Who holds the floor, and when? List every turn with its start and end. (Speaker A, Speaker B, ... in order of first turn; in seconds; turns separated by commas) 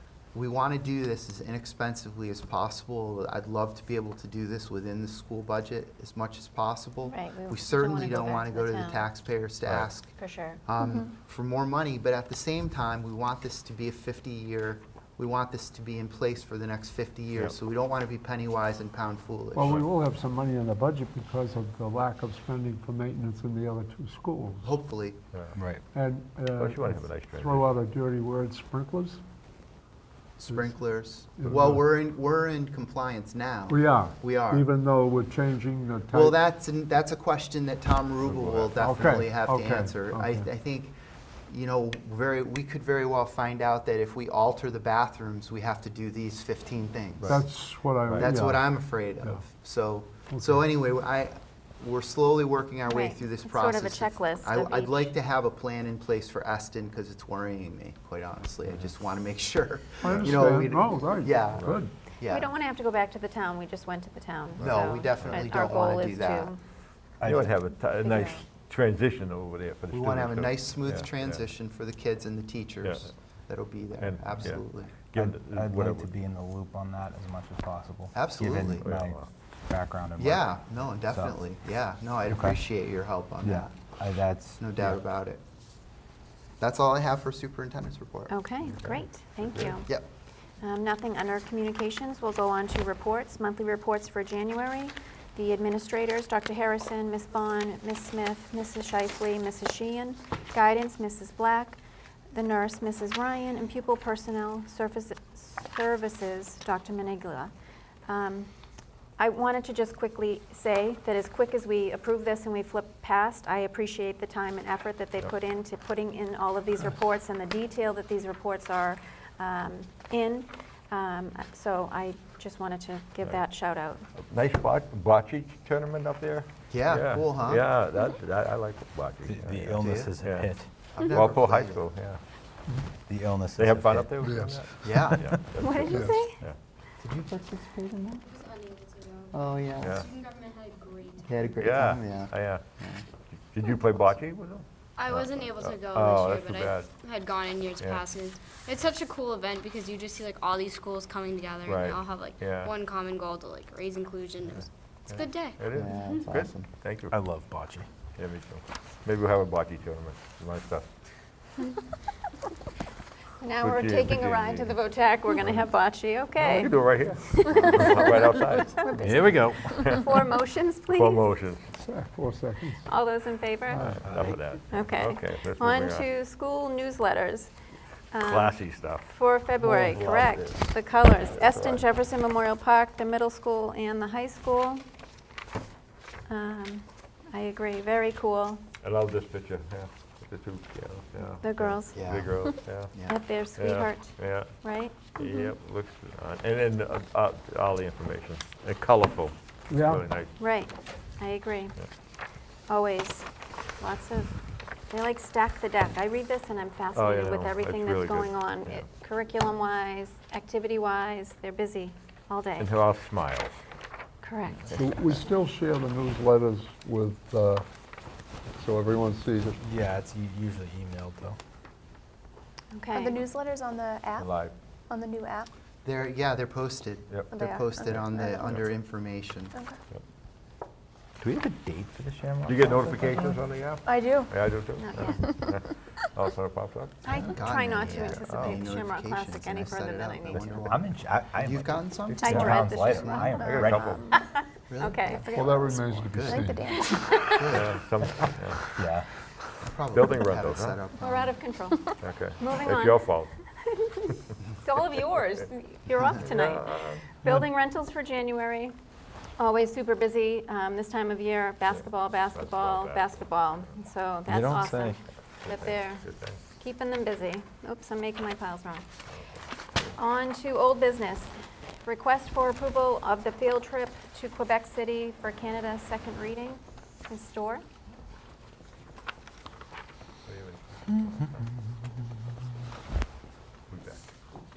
Speaker A: 0.3-19.9, Speaker B: 7.1-9.1, Speaker C: 9.6-9.9, Speaker B: 10.1-10.6, Speaker D: 19.5-24.7, Speaker A: 24.6-25.2, Speaker D: 25.9-29.2, Speaker C: 26.6-27.7, Speaker A: 30.4-34.7, Speaker D: 31.4-31.9, Speaker D: 33.7-36.4, Speaker A: 36.1-41.0, Speaker C: 38.3-38.7, Speaker D: 38.7-40.5, Speaker A: 41.5-47.5, Speaker D: 47.3-49.4, Speaker C: 48.1-48.4, Speaker A: 48.1-62.5, Speaker D: 50.3-50.6, Speaker B: 52.9-55.1, Speaker D: 60.0-62.0, Speaker B: 62.3-66.6, Speaker C: 64.6-65.0, Speaker A: 64.6-66.5, Speaker E: 67.2-67.5, Speaker C: 67.2-71.5, Speaker B: 68.0-68.4, Speaker A: 69.9-75.0, Speaker C: 72.8-73.1, Speaker C: 74.0-76.1, Speaker E: 75.2-80.5, Speaker A: 78.1-78.9, Speaker C: 78.8-79.3, Speaker A: 80.2-83.7, Speaker E: 82.3-82.6, Speaker E: 83.4-84.6, Speaker A: 84.6-85.4, Speaker A: 86.6-88.3, Speaker B: 88.3-89.9, Speaker C: 88.7-89.0, Speaker A: 89.8-90.1, Speaker B: 90.6-101.8, Speaker B: 102.3-107.5, Speaker B: 108.1-108.5, Speaker B: 109.2-124.1, Speaker C: 124.2-130.5, Speaker A: 126.7-127.7, Speaker E: 129.2-130.7, Speaker A: 129.8-130.1, Speaker A: 130.9-131.8, Speaker C: 131.1-132.2, Speaker E: 133.1-134.1, Speaker C: 133.6-136.6, Speaker A: 134.8-135.3, Speaker B: 135.6-136.4, Speaker D: 135.9-136.2, Speaker A: 137.0-138.3, Speaker F: 138.4-141.4, Speaker A: 139.3-140.1, Speaker C: 139.8-140.1, Speaker A: 141.2-143.0, Speaker C: 141.6-142.6, Speaker C: 143.3-146.9, Speaker F: 145.0-156.2, Speaker C: 151.7-152.7, Speaker C: 154.6-157.2, Speaker A: 155.7-156.7, Speaker E: 157.1-157.9, Speaker C: 158.2-160.9, Speaker B: 163.4-171.4, Speaker C: 163.6-164.8, Speaker C: 166.3-168.8, Speaker E: 169.0-169.9, Speaker C: 169.5-170.4, Speaker C: 170.9-171.7, Speaker D: 171.7-172.8, Speaker B: 172.8-173.9, Speaker D: 173.7-174.1, Speaker C: 173.8-176.1, Speaker E: 174.0-174.4, Speaker B: 174.7-177.5, Speaker B: 178.1-184.8, Speaker C: 178.2-179.2, Speaker C: 179.9-181.9, Speaker B: 186.3-188.6, Speaker C: 188.8-200.3, Speaker B: 191.4-195.4, Speaker A: 191.9-192.3, Speaker D: 199.7-200.1, Speaker B: 200.4-201.8, Speaker B: 202.7-203.3, Speaker B: 203.8-204.3, Speaker B: 204.9-212.7, Speaker C: 206.9-208.9, Speaker C: 212.6-213.6, Speaker B: 214.2-214.7, Speaker D: 214.7-217.7, Speaker D: 218.5-219.6, Speaker E: 219.6-221.4, Speaker B: 222.7-223.3, Speaker G: 222.9-224.3, Speaker C: 224.2-224.5, Speaker G: 224.9-225.5, Speaker A: 225.8-229.6, Speaker C: 227.1-228.7, Speaker G: 227.3-228.6, Speaker E: 231.2-233.3, Speaker C: 232.5-237.1, Speaker G: 233.9-234.3, Speaker B: 234.8-235.5, Speaker B: 237.1-240.7, Speaker A: 237.1-243.3, Speaker C: 238.2-238.7, Speaker E: 240.3-244.0, Speaker B: 242.2-243.4, Speaker G: 243.4-244.1, Speaker C: 243.4-244.1, Speaker B: 244.1-245.9, Speaker A: 244.7-246.7, Speaker D: 245.3-246.7, Speaker G: 246.1-247.4, Speaker B: 246.8-247.4, Speaker A: 247.2-247.8, Speaker C: 247.5-248.7, Speaker E: 248.8-249.1, Speaker A: 249.6-251.4, Speaker C: 249.9-250.9, Speaker B: 251.0-258.8, Speaker C: 252.0-253.3, Speaker C: 256.2-257.2, Speaker B: 259.4-268.9, Speaker C: 261.7-263.7, Speaker E: 264.3-265.0, Speaker C: 265.4-266.4, Speaker C: 269.1-269.4, Speaker B: 269.9-271.3, Speaker B: 271.9-277.6, Speaker C: 280.2-281.3, Speaker E: 280.9-282.4, Speaker C: 283.7-284.1